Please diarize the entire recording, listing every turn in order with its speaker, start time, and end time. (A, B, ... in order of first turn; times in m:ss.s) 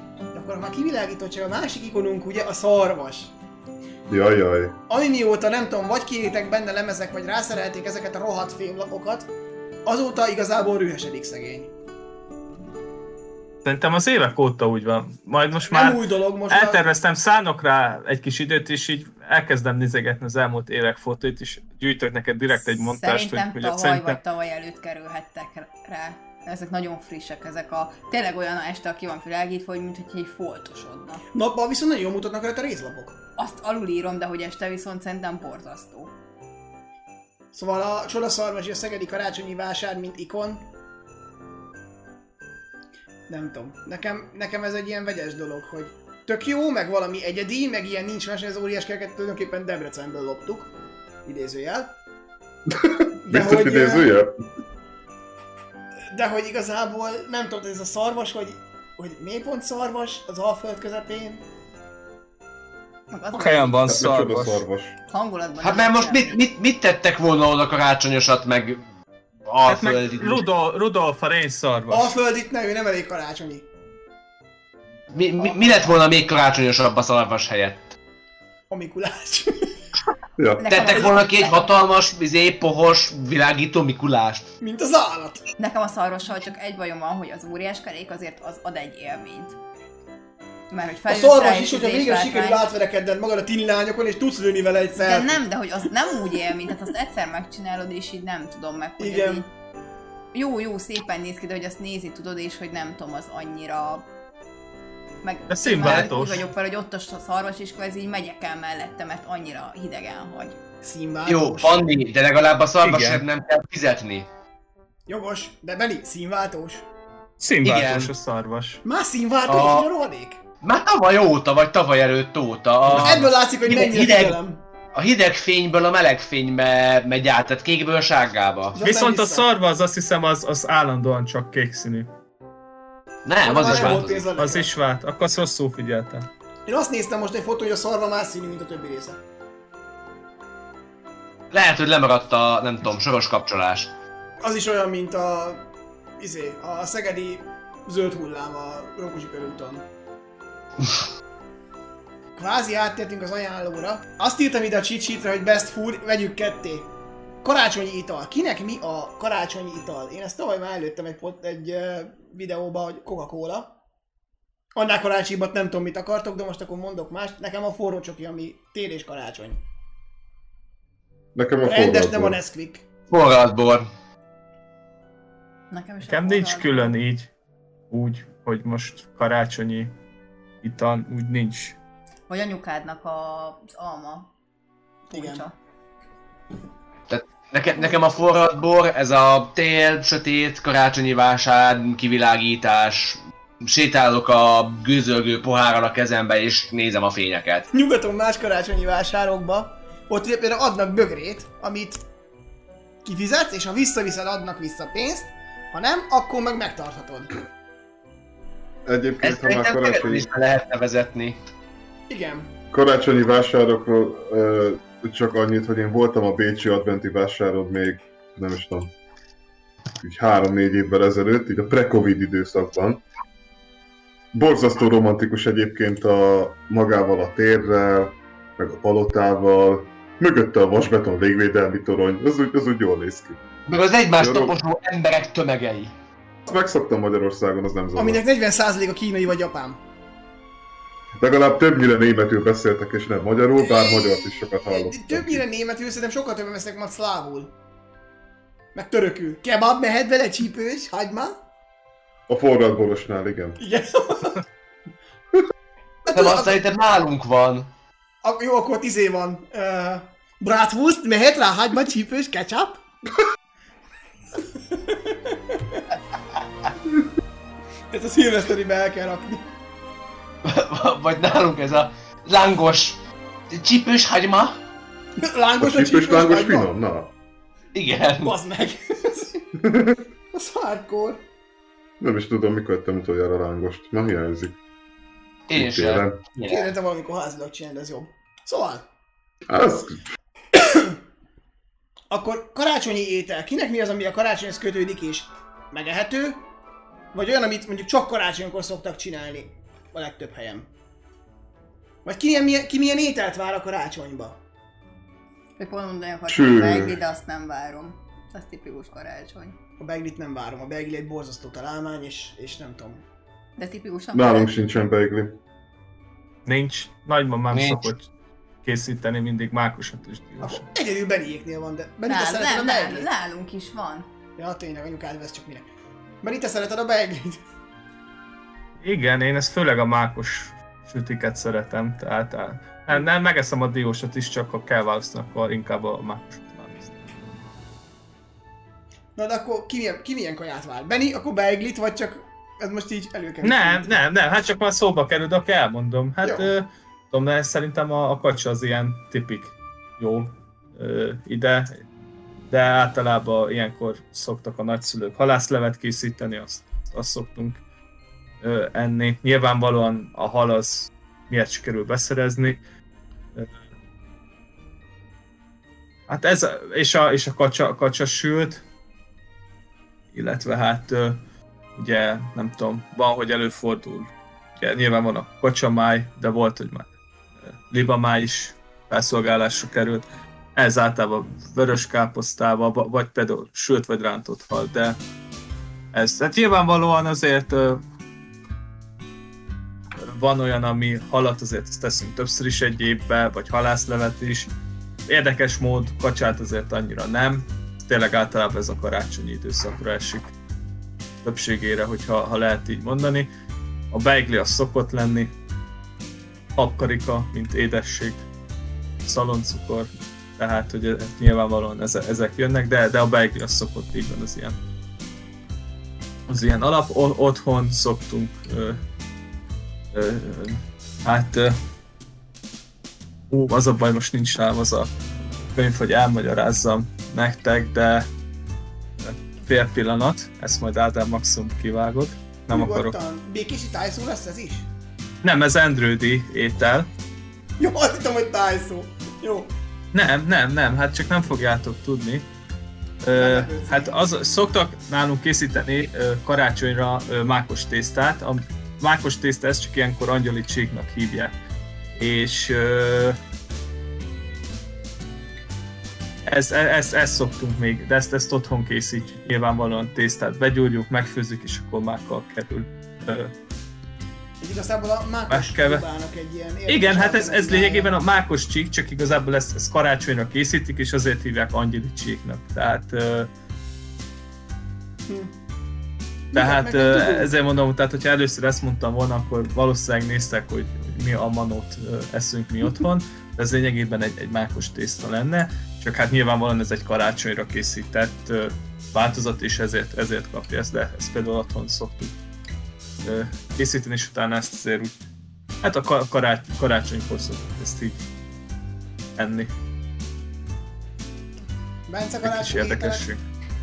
0:00.3-0:03.3 A
0:04.1-0:04.8 B
0:04.9-0:09.3 A
0:09.8-0:11.7 A
0:13.6-0:24.2 C
0:15.6-0:16.8 A
0:22.6-0:31.2 D
0:31.3-0:33.2 A
0:33.4-0:36.1 D
0:37.5-0:40.7 A
0:43.3-0:50.7 A
0:51.2-0:51.9 A
0:52.7-0:54.4 B
0:53.2-0:54.1 A
0:56.1-1:01.4 A
1:03.1-1:03.8 D
1:03.3-1:04.6 C
1:03.8-1:05.0 B
1:05.1-1:06.4 D
1:05.6-1:08.8 E
1:09.5-1:10.4 E
1:09.6-1:12.2 C
1:11.9-1:13.6 A
1:15.1-1:17.8 E
1:18.7-1:19.7 A
1:20.4-1:20.9 B
1:20.6-1:21.8 D
1:20.7-1:24.5 E
1:24.6-1:25.4 A
1:25.6-1:29.6 D
1:30.7-1:32.7 D
1:31.1-1:35.4 A
1:35.0-1:39.5 D
1:39.0-1:39.4 A
1:40.3-1:44.1 D
1:45.2-1:50.6 D
1:45.5-1:46.5 C
1:50.8-1:51.8 A
1:51.2-1:54.3 E
1:52.8-1:53.2 C
1:55.1-1:56.8 A
1:57.4-1:58.8 C
1:57.6-1:58.1 E
1:58.8-2:00.4 A
1:59.4-1:59.9 E
2:00.6-2:04.4 E
2:02.9-2:04.6 A
2:02.9-2:03.2 C
2:04.9-2:08.8 E
2:08.7-2:09.4 A
2:08.8-2:12.1 C
2:13.2-2:14.3 E
2:13.4-2:14.7 A
2:13.5-2:16.3 C
2:16.6-2:19.2 A
2:21.5-2:23.9 E
2:24.4-2:25.6 A
2:26.2-2:29.8 A
2:32.3-2:36.9 A
2:37.4-2:43.8 A
2:44.7-2:49.6 A
2:51.3-2:52.4 B
2:51.6-2:52.8 A
2:53.1-2:53.9 E
2:55.7-2:56.9 D
2:56.0-2:57.3 C
2:57.9-2:59.9 C
3:00.6-3:01.8 C
3:02.3-3:04.3 D
3:05.1-3:05.5 D
3:05.1-3:05.4 A
3:07.1-3:17.7 E
3:17.7-3:22.0 A
3:23.0-3:27.3 A
3:28.8-3:30.3 B
3:29.2-3:31.4 E
3:32.1-3:32.5 A
3:32.7-3:38.9 B
3:40.0-3:43.0 B
3:44.3-3:53.4 B
3:53.7-3:55.9 E
3:54.2-3:54.5 B
3:56.4-3:58.2 B
3:57.9-3:59.8 A
4:01.2-4:05.4 B
4:03.6-4:07.5 A
4:08.7-4:11.4 A
4:12.3-4:13.6 B
4:13.6-4:14.4 A
4:16.0-4:16.6 A
4:16.1-4:17.7 E
4:18.2-4:22.8 A
4:24.9-4:25.8 A
4:27.9-4:29.5 A
4:30.4-4:34.6 E
4:35.2-4:36.7 A
4:35.6-4:37.1 B
4:37.7-4:38.4 E
4:38.2-4:39.4 A
4:39.6-4:40.0 B
4:40.3-4:41.2 A
4:42.0-4:44.6 B
4:45.5-4:46.7 E
4:45.6-4:46.2 B
4:46.5-4:48.8 A
4:49.5-4:50.0 B
4:50.5-4:51.0 A
4:52.1-4:56.4 A
4:57.1-5:00.7 A
5:02.0-5:04.4 A
5:05.6-5:09.6 D
5:06.3-5:07.0 B
5:09.8-5:13.0 A
5:13.6-5:14.5 D
5:14.1-5:15.4 B
5:16.4-5:18.1 C
5:17.5-5:17.9 E
5:18.6-5:20.6 C
5:20.4-5:23.1 A
5:22.1-5:24.1 D
5:24.4-5:25.7 A
5:26.2-5:27.4 A
5:28.8-5:37.0 C
5:39.2-5:44.0 A
5:43.4-5:51.8 C
5:46.2-5:46.5 A
5:52.5-5:57.6 C
5:58.4-6:02.6 C
6:06.1-6:08.6 C
6:10.1-6:11.2 C
6:11.8-6:16.9 C
6:17.4-6:25.0 C
6:25.9-6:27.8 C
6:30.0-6:34.5 C
6:35.0-6:40.3 C
6:41.2-6:43.3 C
6:43.9-6:45.3 C
6:46.6-6:48.2 C
6:49.0-6:54.6 C
6:56.3-6:58.8 C
6:59.9-7:01.6 C
7:03.3-7:04.9 C
7:05.5-7:08.1 C
7:09.0-7:12.9 C
7:12.5-7:14.7 A
7:15.2-7:16.9 C
7:17.6-7:19.5 A
7:19.9-7:22.3 C
7:23.0-7:31.3 C
7:23.1-7:24.0 A
7:32.0-7:33.2 C
7:36.2-7:43.3 C
7:44.4-7:47.9 A
7:45.3-7:45.8 C
7:46.7-7:53.3 C
7:55.1-7:55.3 A
7:56.3-7:57.3 A
7:56.3-8:12.1 C
8:13.0-8:15.0 C
8:15.6-8:18.0 C
8:19.2-8:19.5 C
8:21.9-8:23.1 A
8:22.2-8:23.2 C